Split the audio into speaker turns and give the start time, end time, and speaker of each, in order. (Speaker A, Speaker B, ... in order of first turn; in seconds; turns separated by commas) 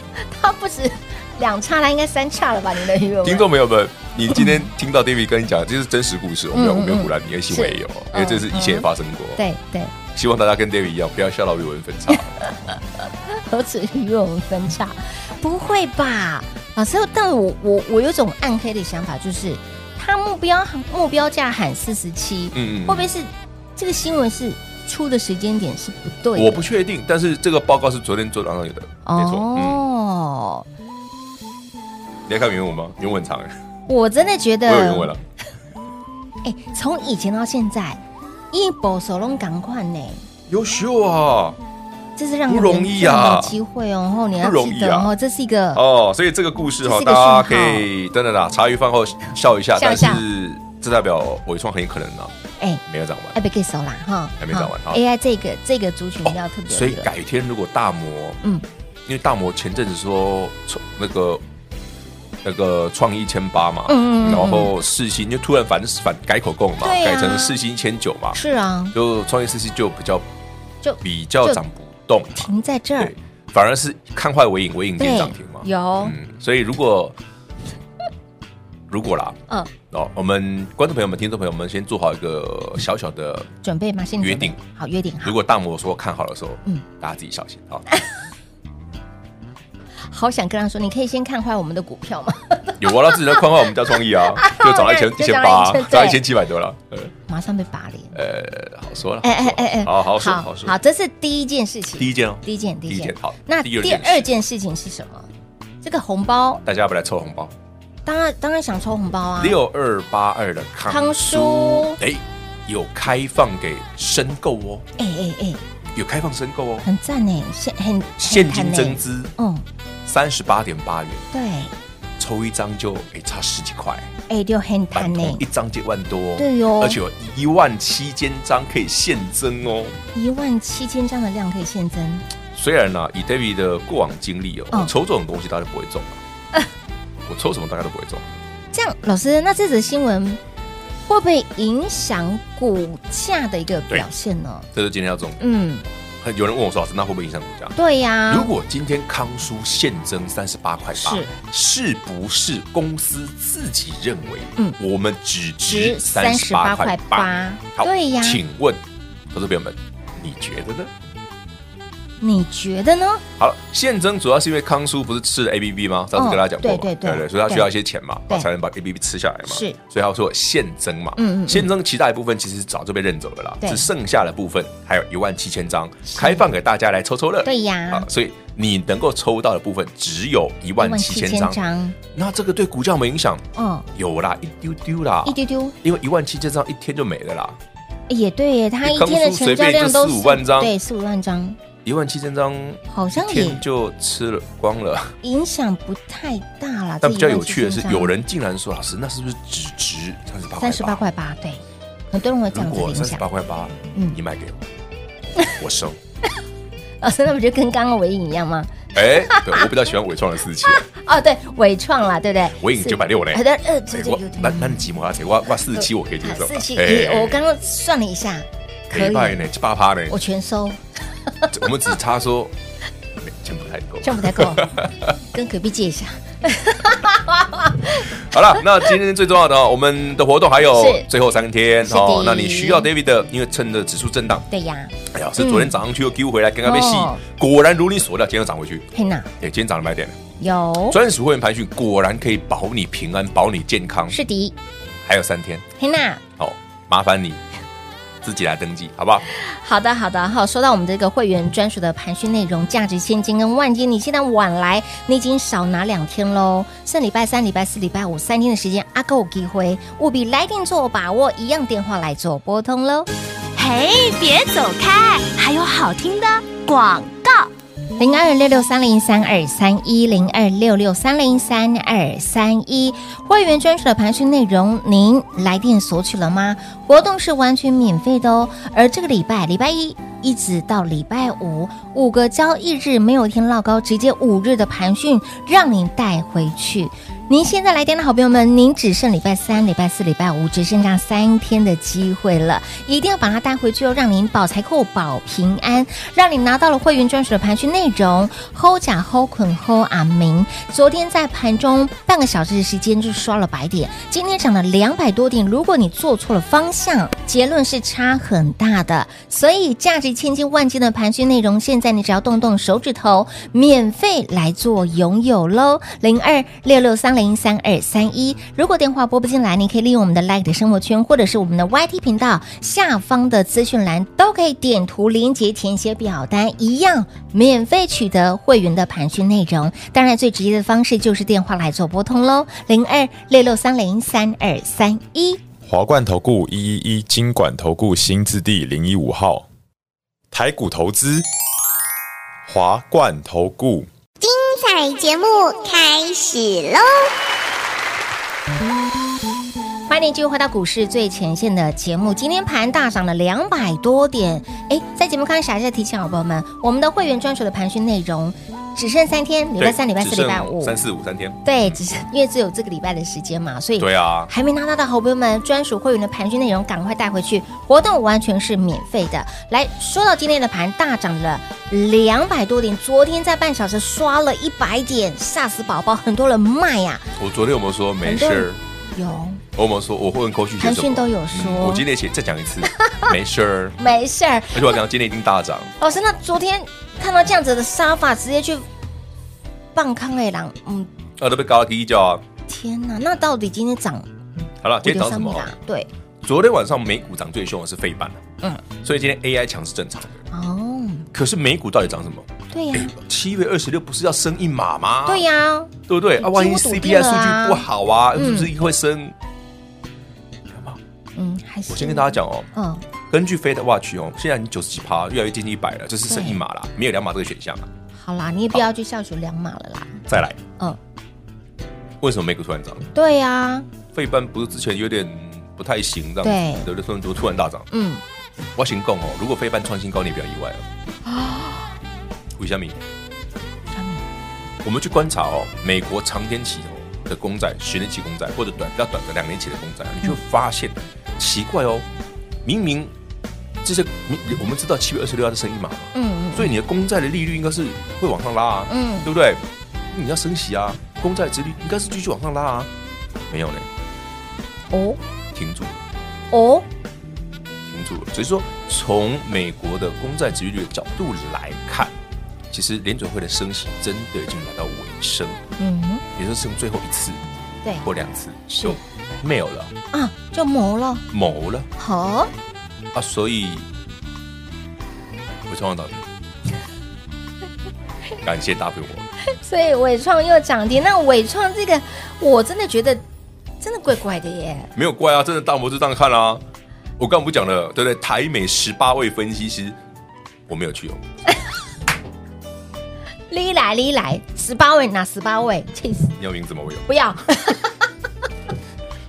Speaker A: 0.2-3.5, Speaker B: 3.2-9.4, Speaker A: 4.3-4.6, Speaker A: 6.5-9.9, Speaker B: 10.1-12.4, Speaker A: 12.1-26.6, Speaker B: 22.5-23.1, Speaker B: 26.4-29.8, Speaker A: 29.1-30.7, Speaker B: 32.3-33.5, Speaker A: 33.9-35.1, Speaker B: 34.7-35.2, Speaker A: 36.4-38.0, Speaker A: 38.5-40.2, Speaker B: 40.5-41.6, Speaker A: 42.2-45.8, Speaker B: 42.5-43.6, Speaker B: 44.4-45.1, Speaker B: 45.7-52.3, Speaker A: 46.8-47.9, Speaker A: 49.8-50.2, Speaker B: 52.9-53.4, Speaker A: 53.3-57.1, Speaker B: 54.4-55.0, Speaker B: 56.2-58.4, Speaker B: 59.1-61.4, Speaker B: 62.4-68.4, Speaker A: 63.9-64.7, Speaker A: 66.8-67.6, Speaker A: 68.3-68.9, Speaker B: 68.9-70.3, Speaker A: 70.8-71.6, Speaker B: 71.0-77.2, Speaker A: 72.4-73.1, Speaker A: 75.0-76.2, Speaker B: 78.9-79.4, Speaker B: 79.9-83.5, Speaker A: 83.6-85.4, Speaker B: 84.2-84.6, Speaker B: 85.2-87.8, Speaker A: 90.0-93.4, Speaker B: 92.8-97.1, Speaker A: 94.3-96.2, Speaker A: 97.3-98.2, Speaker B: 98.1-100.8, Speaker A: 99.2-105.3, Speaker B: 102.0-104.3, Speaker A: 105.8-106.6, Speaker B: 106.7-107.5, Speaker A: 108.1-109.6, Speaker B: 109.4-114.8, Speaker A: 110.9-112.0, Speaker A: 115.0-115.6, Speaker B: 116.0-116.9, Speaker A: 116.8-119.6, Speaker B: 118.2-119.3, Speaker B: 120.0-121.2, Speaker A: 121.3-121.7, Speaker B: 122.2-124.1, Speaker A: 124.3-125.4, Speaker B: 124.9-130.0, Speaker A: 126.4-127.0, Speaker A: 130.1-132.3, Speaker B: 132.5-136.2, Speaker B: 137.3-138.3, Speaker A: 138.7-140.4, Speaker A: 141.1-144.7, Speaker B: 144.7-145.4, Speaker A: 145.4-145.8, Speaker B: 146.2-147.8, Speaker A: 147.8-148.5, Speaker B: 148.3-160.9, Speaker A: 151.0-151.3, Speaker A: 155.7-158.4, Speaker A: 162.2-163.2, Speaker B: 163.4-181.6, Speaker A: 166.2-167.7, Speaker A: 169.5-169.8, Speaker A: 171.2-171.7, Speaker A: 173.6-173.9, Speaker A: 176.1-176.5, Speaker A: 177.4-178.1, Speaker A: 180.8-182.0, Speaker B: 182.1-187.6, Speaker A: 183.6-183.9, Speaker A: 185.2-185.8, Speaker A: 188.1-191.6, Speaker B: 188.8-190.7, Speaker B: 191.8-195.2, Speaker A: 192.9-193.6, Speaker A: 195.2-198.1, Speaker B: 197.0-201.0, Speaker A: 200.6-203.2, Speaker B: 202.5-204.7, Speaker B: 205.6-206.0, Speaker A: 207.0-209.7, Speaker B: 208.9-210.8, Speaker A: 210.7-214.9, Speaker B: 212.6-217.4, Speaker A: 215.7-219.4, Speaker B: 218.9-220.2, Speaker A: 220.1-221.5, Speaker B: 221.5-222.5, Speaker B: 223.2-225.1, Speaker A: 224.0-224.8, Speaker A: 225.3-228.2, Speaker B: 228.2-234.5, Speaker A: 230.7-231.1, Speaker A: 231.8-232.9, Speaker A: 234.5-235.7, Speaker B: 235.1-238.9, Speaker A: 236.7-237.2, Speaker A: 238.9-239.3, Speaker B: 239.4-240.2, Speaker A: 240.4-241.0, Speaker B: 240.9-244.2, Speaker A: 244.1-244.6, Speaker B: 245.0-245.7, Speaker A: 245.8-246.2, Speaker B: 246.4-247.4, Speaker B: 248.2-249.2, Speaker A: 249.3-263.1, Speaker C: 263.6-267.5, Speaker A: 268.0-335.4, Speaker D: 335.6-339.5, Speaker D: 340.3-341.2, Speaker D: 342.5-343.9, Speaker E: 344.2-347.1, Speaker A: 349.9-360.8, Speaker B: 359.6-361.4, Speaker A: 361.4-377.1, Speaker B: 363.8-364.3, Speaker B: 377.2-378.6, Speaker A: 378.0-379.4, Speaker B: 379.6-383.8, Speaker A: 380.6-381.9, Speaker A: 382.8-383.1, Speaker A: 383.8-384.8, Speaker B: 384.5-385.7, Speaker A: 385.8-388.7, Speaker A: 389.8-390.9, Speaker B: 391.2-392.2, Speaker A: 392.5-394.1, Speaker B: 394.6-395.6, Speaker A: 394.8-395.9, Speaker B: 396.2-398.2, Speaker B: 398.8-400.2, Speaker A: 400.3-401.1, Speaker B: 401.1-405.3, Speaker A: 402.5-402.9, Speaker A: 405.1-408.5, Speaker B: 405.9-409.2, Speaker B: 410.5-410.8, Speaker A: 411.2-412.9, Speaker B: 411.7-412.5, Speaker B: 413.1-417.7, Speaker A: 416.1-416.4, Speaker A: 418.0-420.1, Speaker B: 420.1-420.4, Speaker B: 422.0-422.9, Speaker A: 422.9-423.7, Speaker B: 423.9-427.7, Speaker A: 426.2-426.7, Speaker A: 427.7-428.0, Speaker B: 428.6-430.7, Speaker A: 431.1-431.7, Speaker B: 432.4-432.8, Speaker A: 433.7-434.0, Speaker B: 434.6-441.9, Speaker B: 442.4-442.9, Speaker B: 443.6-452.7, Speaker A: 445.9-446.5, Speaker A: 448.7-449.1, Speaker B: 453.3-453.7, Speaker A: 454.7-455.0, Speaker B: 455.3-455.8, Speaker A: 456.3-456.7, Speaker B: 457.7-461.9, Speaker B: 462.5-465.4, Speaker A: 465.6-466.0, Speaker B: 466.1-467.2, Speaker B: 467.8-469.7, Speaker A: 468.5-468.8, Speaker A: 469.9-471.1, Speaker B: 471.1-471.7, Speaker A: 471.8-472.3, Speaker B: 472.9-473.7, Speaker B: 475.5-476.1, Speaker B: 478.2-479.1, Speaker A: 479.3-483.0, Speaker A: 483.6-484.7, Speaker B: 484.8-486.4, Speaker B: 487.0-489.8, Speaker B: 490.5-491.0, Speaker A: 493.3-496.2, Speaker B: 496.2-496.9, Speaker A: 496.9-497.8